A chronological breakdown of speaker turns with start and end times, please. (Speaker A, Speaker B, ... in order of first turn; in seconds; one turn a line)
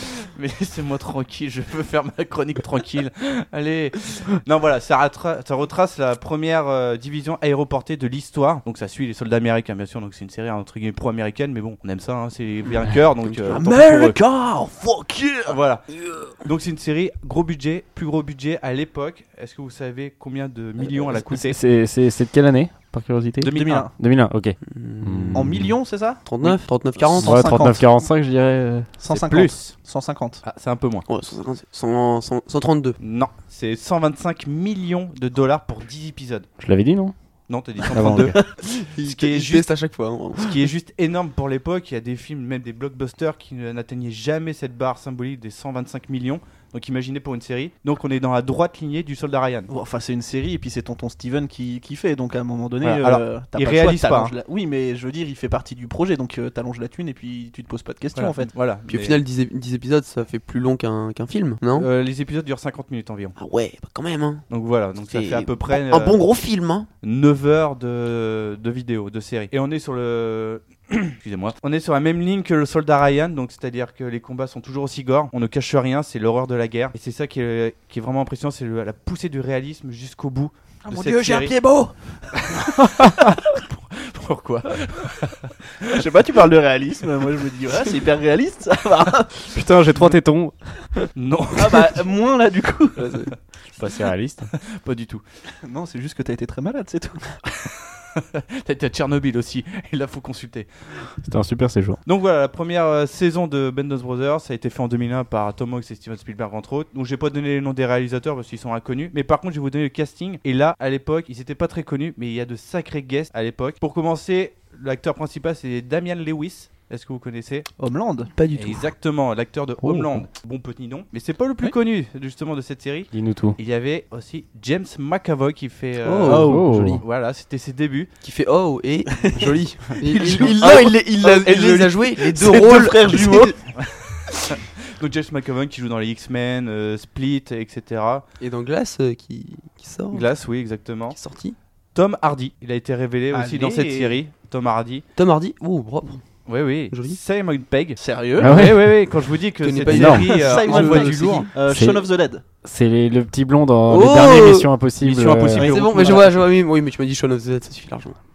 Speaker A: 0.3-14.2
Speaker B: 13.2-13.6
Speaker C: 13.5-15.6
Speaker A: 15.5-21.5
Speaker C: 21.1-21.6
Speaker D: 21.4-25.7
Speaker A: 23.4-23.9
Speaker C: 23.5-23.9
Speaker B: 24.6-25.5
Speaker C: 25.3-27.9
Speaker B: 26.2-27.4
Speaker D: 27.2-28.9
Speaker C: 29.0-30.4
Speaker A: 29.1-29.7
Speaker A: 30.4-31.1
Speaker B: 31.1-33.0
Speaker A: 33.0-36.5
Speaker D: 36.6-37.1
Speaker A: 37.5-39.7
Speaker D: 37.9-38.4
Speaker B: 38.6-40.6
Speaker A: 40.4-49.7
Speaker C: 49.7-58.5
Speaker A: 52.8-54.3
Speaker A: 58.1-59.2
Speaker B: 58.9-61.9
Speaker A: 61.7-63.3
Speaker B: 63.4-64.4
Speaker A: 64.5-66.2
Speaker B: 65.0-66.9
Speaker A: 67.0-81.5
Speaker C: 80.8-83.3
Speaker A: 82.3-86.0
Speaker C: 85.8-89.6
Speaker D: 89.5-90.5
Speaker A: 91.1-92.0
Speaker C: 91.5-93.1
Speaker B: 93.0-93.3
Speaker D: 93.8-94.5
Speaker A: 94.7-95.2
Speaker C: 95.6-97.3
Speaker A: 97.7-100.7
Speaker D: 101.2-102.0
Speaker A: 102.0-117.7
Speaker C: 117.8-118.3
Speaker B: 118.4-118.8
Speaker A: 118.5-128.1
Speaker D: 119.8-120.2
Speaker D: 123.1-123.6
Speaker B: 126.0-126.8
Speaker C: 126.2-127.0
Speaker D: 126.4-127.0
Speaker B: 128.2-133.5
Speaker C: 129.2-129.5
Speaker C: 130.0-133.6
Speaker A: 133.8-138.2
Speaker B: 138.4-140.3
Speaker A: 140.1-141.2
Speaker B: 141.1-141.6
Speaker A: 141.9-145.0
Speaker C: 143.3-144.2
Speaker B: 145.2-146.2
Speaker A: 146.4-151.5
Speaker B: 146.9-147.2
Speaker C: 148.0-148.6
Speaker D: 148.4-149.2
Speaker B: 149.6-151.5
Speaker D: 149.9-150.2
Speaker C: 150.2-152.4
Speaker D: 151.7-152.0
Speaker D: 152.6-155.7
Speaker B: 153.9-154.7
Speaker A: 155.0-156.4
Speaker B: 155.6-158.2
Speaker C: 155.7-156.2